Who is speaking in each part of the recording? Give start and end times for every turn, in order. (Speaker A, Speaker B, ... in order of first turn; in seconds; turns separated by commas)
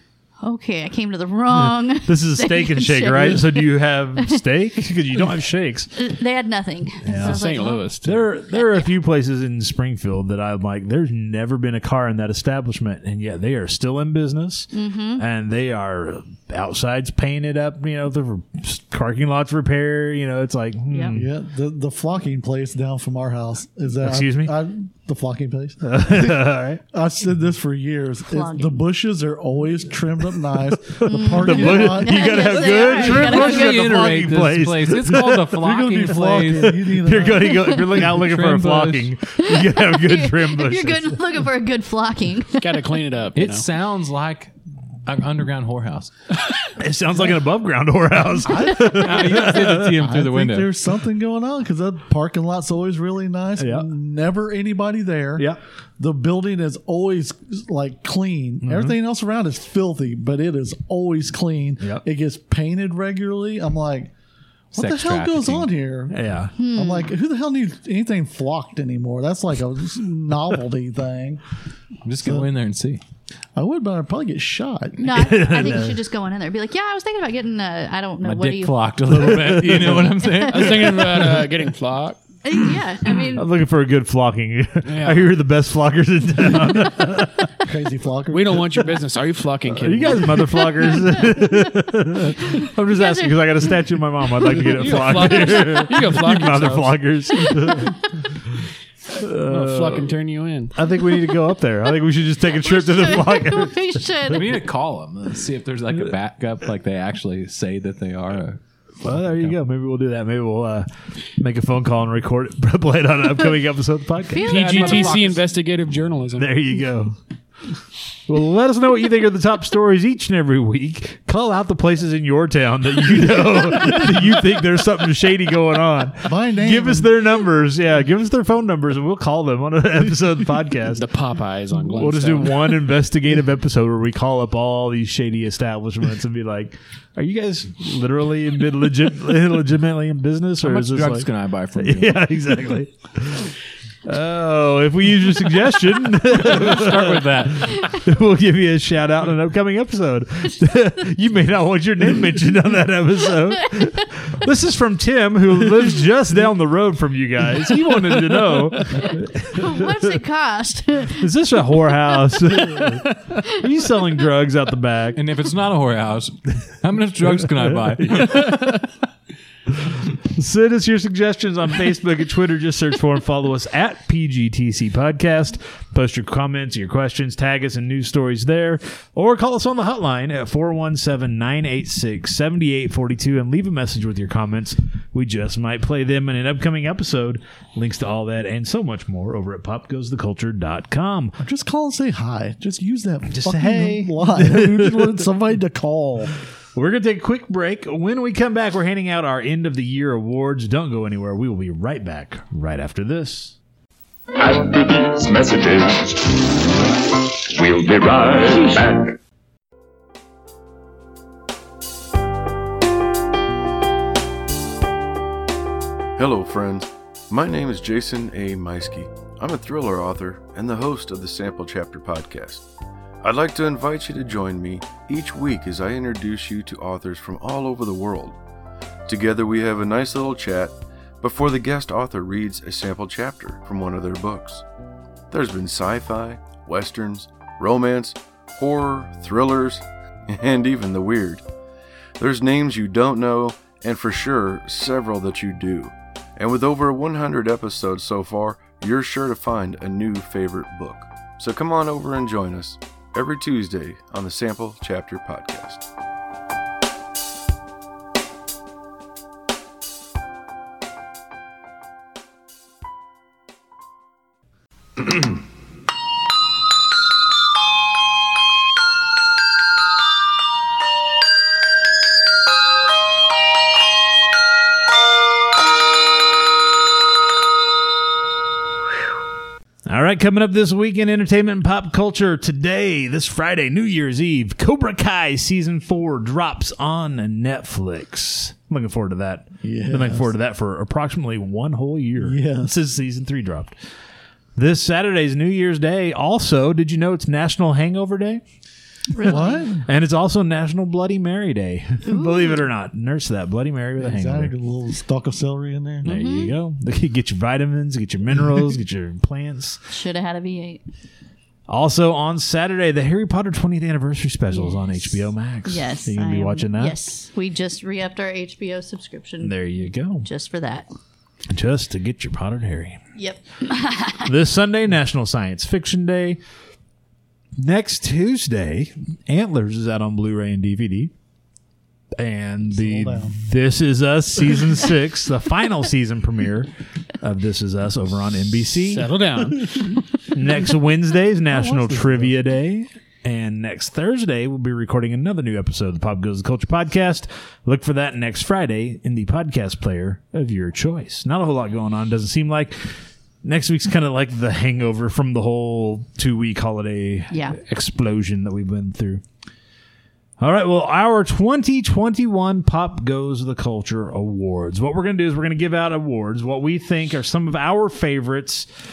Speaker A: 0.4-4.4, Speaker B: 1.5-6.0, Speaker A: 6.0-7.9, Speaker B: 7.0-7.4, Speaker C: 7.1-8.3, Speaker B: 8.0-21.3, Speaker A: 8.5-8.9, Speaker A: 14.7-15.2, Speaker A: 20.9-21.2, Speaker D: 21.1-32.5, Speaker B: 24.0-24.5, Speaker B: 25.8-26.8, Speaker A: 28.3-28.9, Speaker B: 31.0-35.6, Speaker A: 31.0-34.0, Speaker E: 32.7-36.8, Speaker D: 35.5-38.0, Speaker B: 36.6-41.3, Speaker E: 38.1-39.1, Speaker A: 39.4-42.8, Speaker C: 42.6-43.7, Speaker E: 43.4-44.5, Speaker E: 45.0-46.1, Speaker B: 46.8-50.0, Speaker D: 48.5-64.1, Speaker E: 48.8-50.7, Speaker B: 53.6-53.9, Speaker B: 58.6-59.0, Speaker E: 64.7-65.7, Speaker D: 64.7-71.4, Speaker B: 66.1-66.5, Speaker A: 66.6-67.1, Speaker E: 72.0-73.0, Speaker D: 73.6-75.0, Speaker A: 75.0-78.9, Speaker B: 75.1-76.0, Speaker E: 78.2-81.4, Speaker B: 79.1-80.2, Speaker A: 80.2-80.7, Speaker C: 80.5-82.2, Speaker A: 82.5-83.5, Speaker B: 83.3-87.5, Speaker C: 84.8-85.4, Speaker D: 87.6-88.8, Speaker C: 88.3-90.5, Speaker B: 89.7-98.6, Speaker A: 90.8-91.5, Speaker A: 92.9-93.7, Speaker C: 94.6-97.0, Speaker B: 99.1-100.1, Speaker C: 99.5-100.8, Speaker B: 100.7-104.4, Speaker A: 102.6-104.5, Speaker E: 104.3-108.6, Speaker B: 109.0-115.3, Speaker E: 109.1-109.5, Speaker A: 114.3-115.4, Speaker C: 114.5-116.6, Speaker B: 116.4-117.2, Speaker B: 118.3-131.0, Speaker D: 126.2-127.2, Speaker C: 130.9-132.8, Speaker B: 131.9-160.0, Speaker E: 140.6-142.2, Speaker E: 146.3-147.9, Speaker A: 159.0-161.3, Speaker B: 161.1-165.2, Speaker E: 165.2-168.8, Speaker B: 167.8-168.6, Speaker B: 170.3-191.4, Speaker D: 191.4-196.3, Speaker B: 193.3-195.2, Speaker B: 196.8-203.6, Speaker F: 204.4-206.5, Speaker F: 207.5-209.2, Speaker G: 216.2-222.6, Speaker G: 223.2-228.4, Speaker G: 229.1-234.7, Speaker G: 235.3-241.4, Speaker G: 242.2-255.8, Speaker B: 279.9-293.7, Speaker D: 289.6-290.3, Speaker D: 292.2-292.8, Speaker B: 294.6-298.4, Speaker A: 299.1-299.7, Speaker D: 299.2-299.9, Speaker B: 299.3-304.5, Speaker A: 302.1-302.6, Speaker D: 304.0-306.1, Speaker A: 306.0-306.5, Speaker B: 306.0-309.8, Speaker A: 309.9-310.8, Speaker B: 311.7-317.0, Speaker A: 314.5-319.6, Speaker B: 319.4-320.3, Speaker A: 320.2-320.9, Speaker B: 321.5-323.0, Speaker A: 323.1-324.3, Speaker B: 324.2-326.4, Speaker B: 327.6-331.1, Speaker B: 332.2-339.1, Speaker D: 332.7-333.4, Speaker C: 338.8-340.0, Speaker B: 340.2-359.2, Speaker D: 341.5-342.4, Speaker A: 357.3-357.6, Speaker B: 360.4-368.7